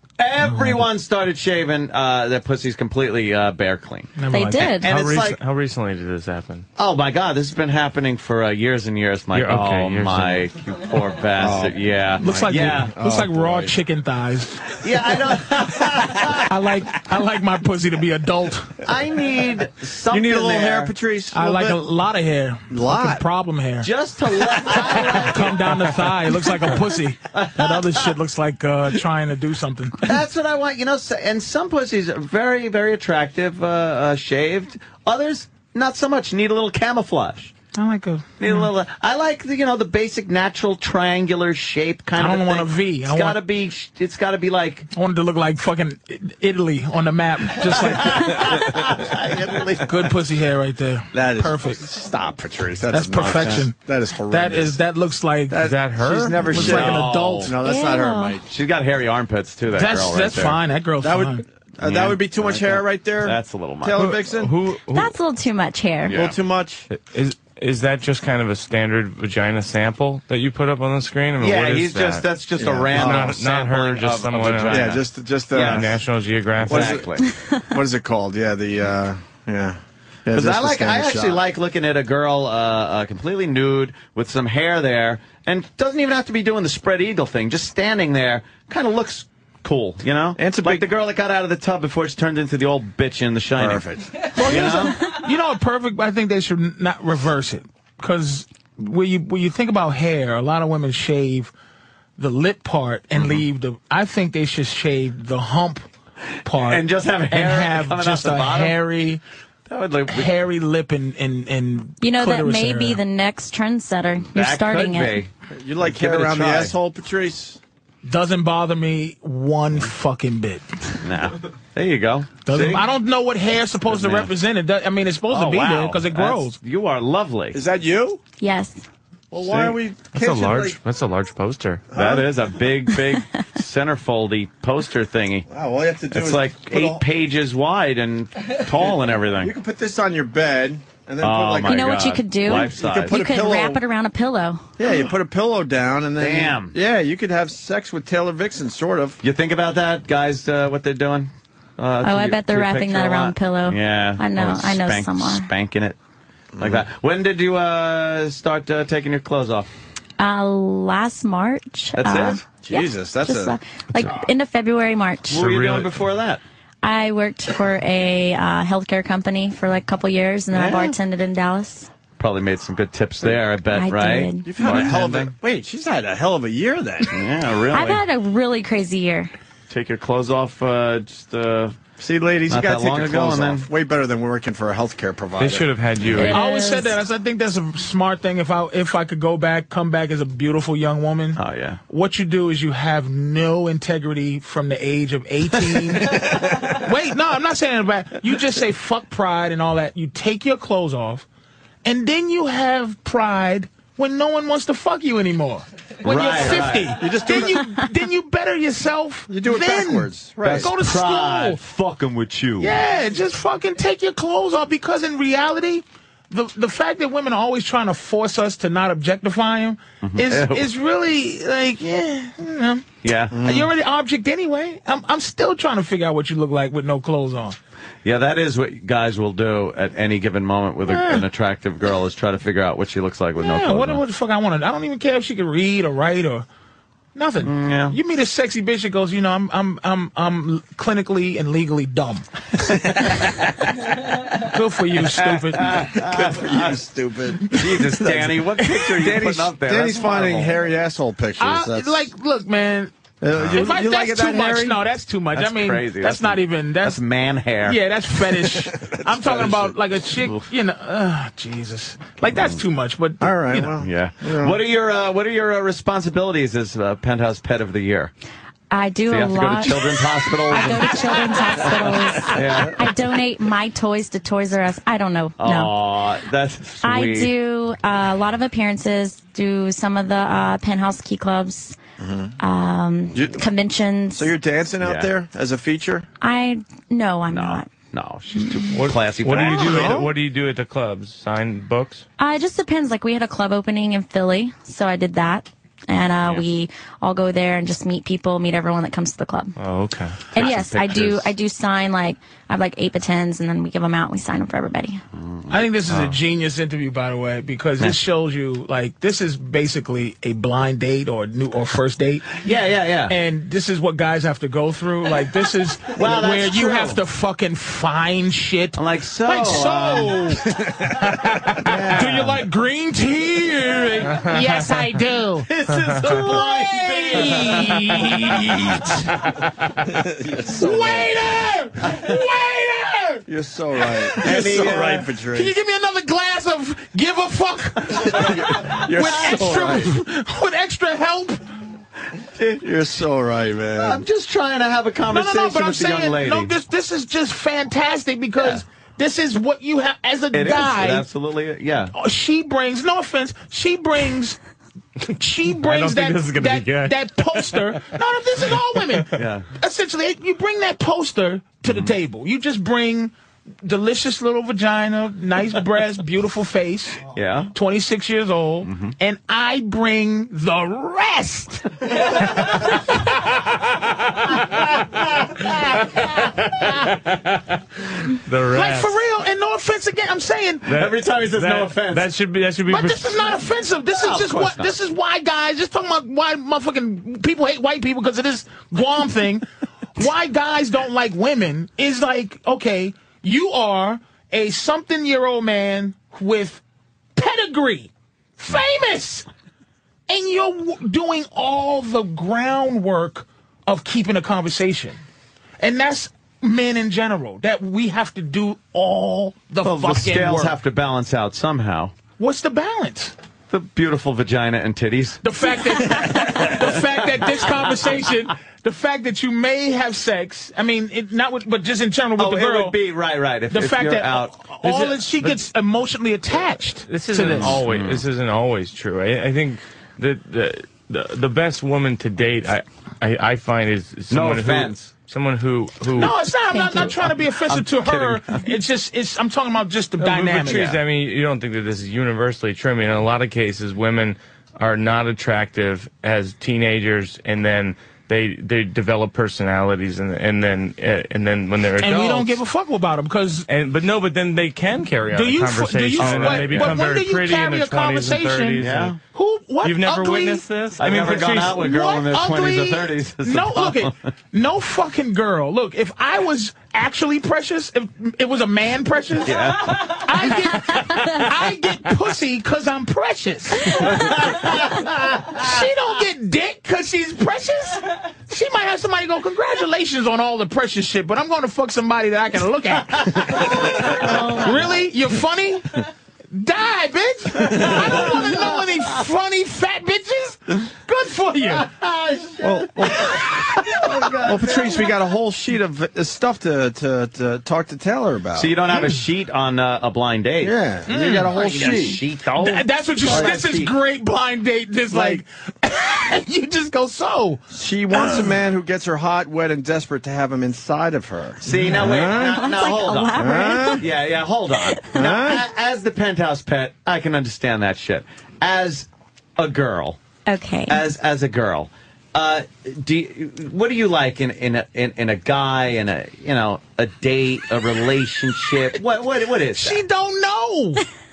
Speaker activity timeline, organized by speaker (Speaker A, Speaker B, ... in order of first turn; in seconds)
Speaker A: 0.2-5.4, 6.8-12.9, 14.8-16.5, 18.8-20.9, 23.8-25.9, 27.3-28.1, 30.0-37.5, 38.4-44.9, 47.6-49.9, 53.2-53.6, 56.5-57.7, 58.5-60.6, 61.8-64.2, 66.1-66.3, 71.4-76.0, 76.6-77.2, 80.3-93.8, 94.4-95.0, 106.5-108.8, 109.7-110.3, 114.3-115.3, 115.8-116.7, 121.0-122.9, 123.9-124.3, 125.3-127.6, 129.5-129.8, 131.9-135.4, 136.1-139.5, 141.2-143.3, 146.2-146.7, 149.2-156.0, 156.6-159.7, 161.9-162.4, 165.3-166.4, 170.5-170.9, 172.2-175.3, 177.1-178.0, 179.7-181.8, 182.5-183.7, 191.3-191.8, 206.0-207.0, 210.4-212.8, 220.0-220.7, 223.0-223.4, 228.0-234.0, 237.4-238.0, 245.0-246.8, 247.5-250.6, 253.4-253.6, 255.3-257.8, 262.3-262.6, 263.8-268.1, 269.1-272.9, 275.4-277.3, 284.8-285.1, 287.3-290.0, 300.3-301.3, 305.1-305.6, 312.4-313.1, 315.9-317.0, 318.7-320.4, 321.6-322.3, 325.5-328.1, 334.2-334.9, 339.3-339.8, 343.8-346.5, 350.3-351.9, 359.1-359.5, 367.1-367.5, 368.6-368.9, 380.7-382.1, 383.9-384.7, 409.6-411.9, 413.5-415.2, 422.2-425.1, 427.1-428.0, 434.1-434.8, 437.5-438.4, 440.0-440.8, 456.0-456.9, 458.6-459.0, 460.8-463.9, 469.2-470.0, 473.8-475.4, 483.5-484.5, 487.6-488.6, 491.6-494.9, 498.3-503.7, 511.4-520.0, 520.7-529.8
Speaker B: 0.5-0.8, 4.2-4.7, 12.2-14.6, 16.5-18.7, 21.3-23.9, 24.6-30.1, 37.7-38.7, 42.2-43.4, 44.9-48.4, 49.8-51.8, 52.9-53.8, 54.3-57.5, 59.7-61.4, 94.3-101.5, 102.2-105.8, 106.4-109.2, 110.1-113.0, 118.0-120.6, 122.5-126.6, 186.2-201.2, 201.8-211.6, 212.6-227.6, 230.9-231.2, 233.4-236.5, 237.1-242.2, 244.4-245.7, 251.4-252.9, 253.5-257.0, 257.6-263.7, 305.5-312.4, 313.1-320.4, 321.1-325.5, 326.0-329.1, 330.5-333.2, 333.9-341.4, 345.1-351.1, 351.9-354.4, 355.1-363.1, 363.6-367.0, 367.5-371.7, 378.5-380.7, 382.7-389.4, 390.0-396.6, 397.1-399.3, 400.1-405.0, 405.6-410.6, 412.2-413.1, 415.2-422.8, 423.5-427.6, 435.9-440.8, 451.8-453.5, 455.1-460.4, 461.1-474.1, 475.3-485.7, 486.3-491.7, 500.9-508.3, 529.6-530.8
Speaker C: 4.3-4.9, 57.6-58.4, 64.9-66.2, 112.0-115.2, 128.4-128.8, 141.7-144.6, 152.0-155.5, 160.2-165.5, 166.8-171.9, 173.7-174.5, 177.7-179.3, 186.2-187.0, 268.7-275.7, 276.8-281.8, 282.4-284.3, 286.2-287.7, 292.2-299.5, 300.3-305.0, 436.5-436.9, 484.1-484.4, 512.1-513.8, 514.7-515.3, 520.3-520.8
Speaker D: 4.8-6.7, 9.3-10.5, 55.6-56.5, 64.3-65.1, 66.9-72.3, 72.9-75.0, 75.6-77.0, 130.1-131.8, 165.3-166.1, 185.4-186.4, 288.7-292.1, 299.6-300.3, 355.6-357.9, 376.4-377.2, 378.2-378.9, 380.7-383.2, 426.9-436.1, 440.1-452.4, 453.5-458.9, 459.6-461.6
Speaker E: 11.4-13.7, 20.1-21.8, 22.7-23.2, 51.1-54.8, 55.5-58.4, 61.0-64.6, 66.1-66.9, 72.6-73.4, 74.5-76.0, 76.6-77.2, 77.7-81.4, 90.4-90.8, 93.6-94.8, 115.5-117.6, 127.5-128.2, 129.3-130.8, 131.9-132.3, 135.5-137.0, 139.4-141.9, 142.5-143.8, 144.8-149.2, 156.5-156.8, 162.6-163.5, 174.4-177.1, 182.0-185.7, 206.9-207.6, 209.3-210.7, 223.3-223.7, 245.7-252.1, 253.2-254.8, 258.5-259.6, 263.2-264.6, 282.0-282.3, 283.1-283.4, 284.1-286.1, 289.4-290.1, 329.9-331.2, 333.3-335.5, 338.0-339.9, 342.5-344.0, 492.4-498.6, 500.4-502.0, 503.1-503.4, 504.9-505.2, 507.5-512.5, 513.1-513.8, 514.9-515.4